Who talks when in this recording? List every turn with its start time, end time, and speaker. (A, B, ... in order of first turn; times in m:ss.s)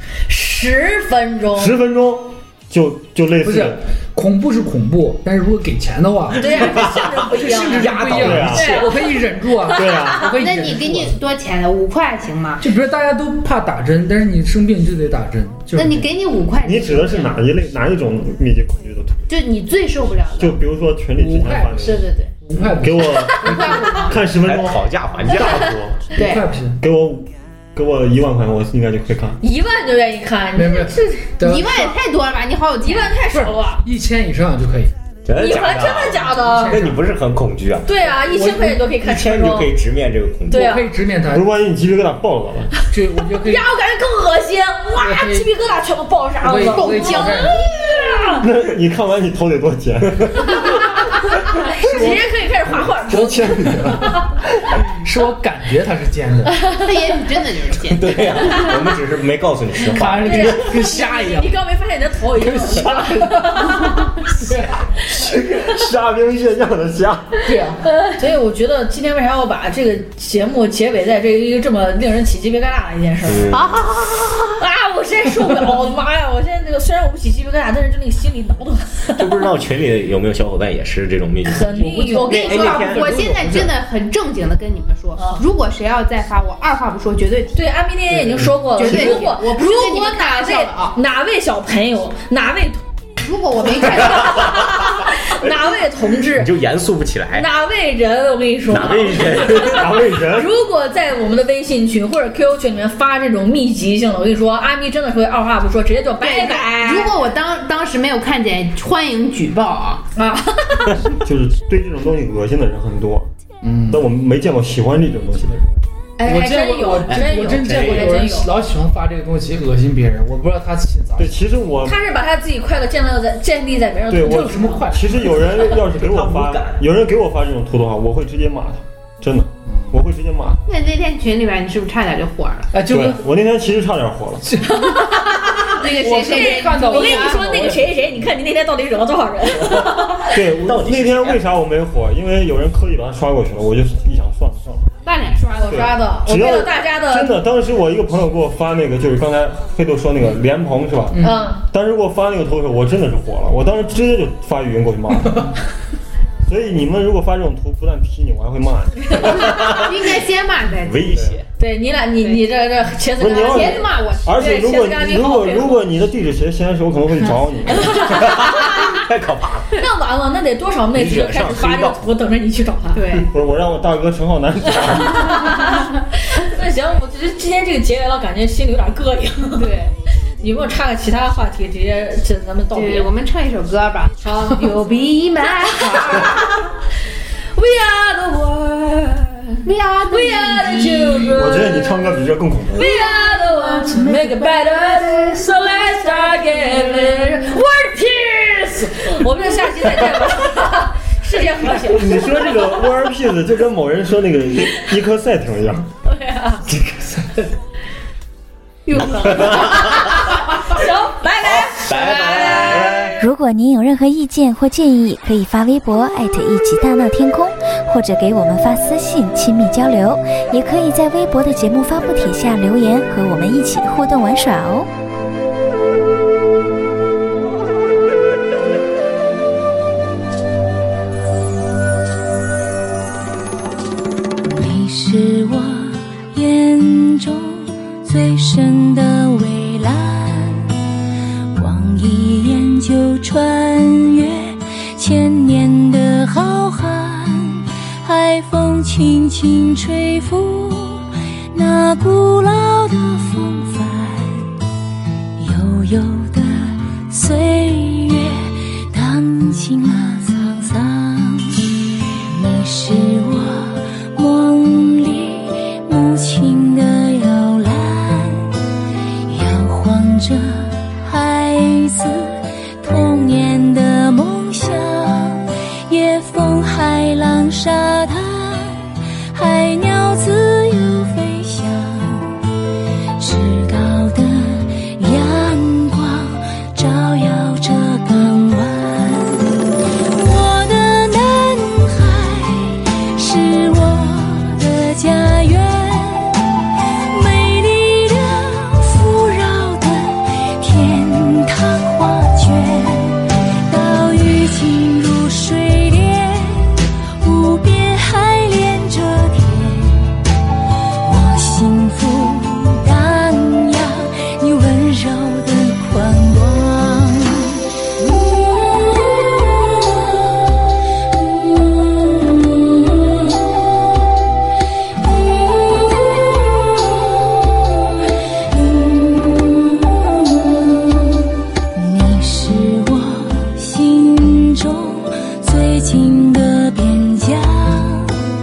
0:00.3-0:01.8 A
0:01.5-0:03.8 B
0:03.4-0:11.2 C
0:06.3-0:10.3 A
0:06.5-0:07.2 D
0:07.7-0:08.5 D
0:08.2-0:08.9 B
0:09.7-0:10.3 B
0:10.4-0:12.6 E
0:12.6-0:16.1 C
0:15.7-0:17.4 E
0:16.6-0:19.3 B
0:19.3-0:20.6 E
0:20.4-0:22.1 B
0:21.2-0:24.0 C
0:21.7-0:22.3 E
0:22.8-0:26.2 B
0:23.2-0:24.2 E
0:24.3-0:25.7 D
0:26.2-0:26.8 C
0:26.2-0:26.4 E
0:26.8-0:29.4 B
0:29.4-0:31.3 A
0:30.6-0:31.9 C
0:31.4-0:33.2 E
0:32.8-0:33.8 A
0:33.3-0:34.9 C
0:35.3-0:38.0 D
0:35.4-0:36.8 A
0:36.4-0:37.0 C
0:37.9-0:39.8 A
0:38.2-0:38.8 C
0:39.0-0:40.8 D
0:40.5-0:40.9 A
0:40.5-0:41.5 C
0:41.3-0:42.7 B
0:42.9-0:43.6 C
0:43.3-0:48.4 A
0:45.0-0:45.5 C
0:46.4-0:47.6 C
0:46.6-0:47.6 E
0:48.4-0:50.6 B
0:50.4-0:53.4 A
0:51.7-0:52.2 C
0:51.7-0:52.2 B
0:52.9-0:54.8 B
0:53.1-0:54.2 C
0:55.0-0:56.6 C
0:56.6-0:57.2 A
0:56.6-0:58.7 E
0:57.9-1:00.7 D
0:59.9-1:01.6 C
1:00.0-1:04.2 A
1:02.4-1:04.9 C
1:02.8-1:03.1 B
1:05.1-1:07.4 B
1:07.4-1:07.9 C
1:07.8-1:19.4 A
1:13.2-1:14.0 D
1:19.2-1:23.7 D
1:21.4-1:23.2 A
1:21.7-1:27.7 E
1:25.2-1:25.4 A
1:27.6-1:32.8 A
1:28.7-1:31.0 E
1:28.9-1:29.2 B
1:33.2-1:34.5 E
1:33.8-1:36.5 A
1:34.4-1:35.7 D
1:36.3-1:37.5 D
1:37.3-1:47.3 A
1:38.7-1:39.9 D
1:39.4-1:40.5 B
1:46.2-1:50.0 E
1:50.2-1:51.0 A
1:50.9-1:53.3 B
1:53.6-1:54.0 C
1:53.9-1:55.7 B
1:56.2-2:01.5 C
1:56.2-1:58.5 A
1:57.1-1:58.2 D
2:01.2-2:02.0 B
2:01.8-2:05.0 A
2:04.1-2:10.6 B
2:04.1-2:05.6 C
2:06.0-2:06.8 D
2:09.7-2:10.0 C
2:10.7-2:12.7 E
2:12.7-2:13.2 C
2:12.9-2:14.7 B
2:14.4-2:15.1 C
2:14.7-2:20.4 A
2:15.5-2:17.4 E
2:15.9-2:18.1 C
2:20.3-2:25.0 B
2:20.7-2:21.4 D
2:25.0-2:26.1 E
2:25.6-2:27.4 A
2:25.7-2:35.6 B
2:31.1-2:31.5 C
2:31.2-2:31.7 A
2:35.1-2:35.6 C
2:36.5-2:39.8 B
2:39.5-2:41.2 E
2:40.8-2:41.5 D
2:41.1-2:41.4 B
2:41.6-2:45.8 A
2:42.2-2:42.5 E
2:43.2-2:48.1 B
2:43.3-2:44.5 E
2:47.7-2:49.0 A
2:48.1-2:49.8 D
2:49.7-2:53.0 A
2:50.9-2:52.0 D
2:52.9-2:53.3 E
2:53.3-2:55.4 B
2:54.7-2:59.8 A
2:59.6-3:00.0 E
3:00.4-3:03.1 A
3:02.7-3:06.6 E
3:04.2-3:04.6 A
3:05.4-3:06.7 A
3:07.6-3:12.0 A
3:09.6-3:11.4 E
3:11.3-3:12.9 B
3:12.8-3:22.7 A
3:13.6-3:15.4 E
3:16.2-3:17.6 E
3:21.8-3:25.9 B
3:26.0-3:26.6 A
3:28.9-3:30.2 E
3:29.3-3:30.0 D
3:29.3-3:33.2 A
3:31.4-3:33.2 D
3:33.2-3:44.9 F
3:54.4-4:00.8 G
4:01.5-4:14.5 G
4:15.4-4:21.7 G
4:22.2-4:28.6 G
4:29.3-4:42.4 G
4:43.2-4:49.6 G
4:50.1-4:56.4 G
4:57.1-5:10.2 G
5:11.0-5:20.4 G
5:21.1-5:23.5 G
5:25.0-5:27.8 G
5:28.4-5:38.2 G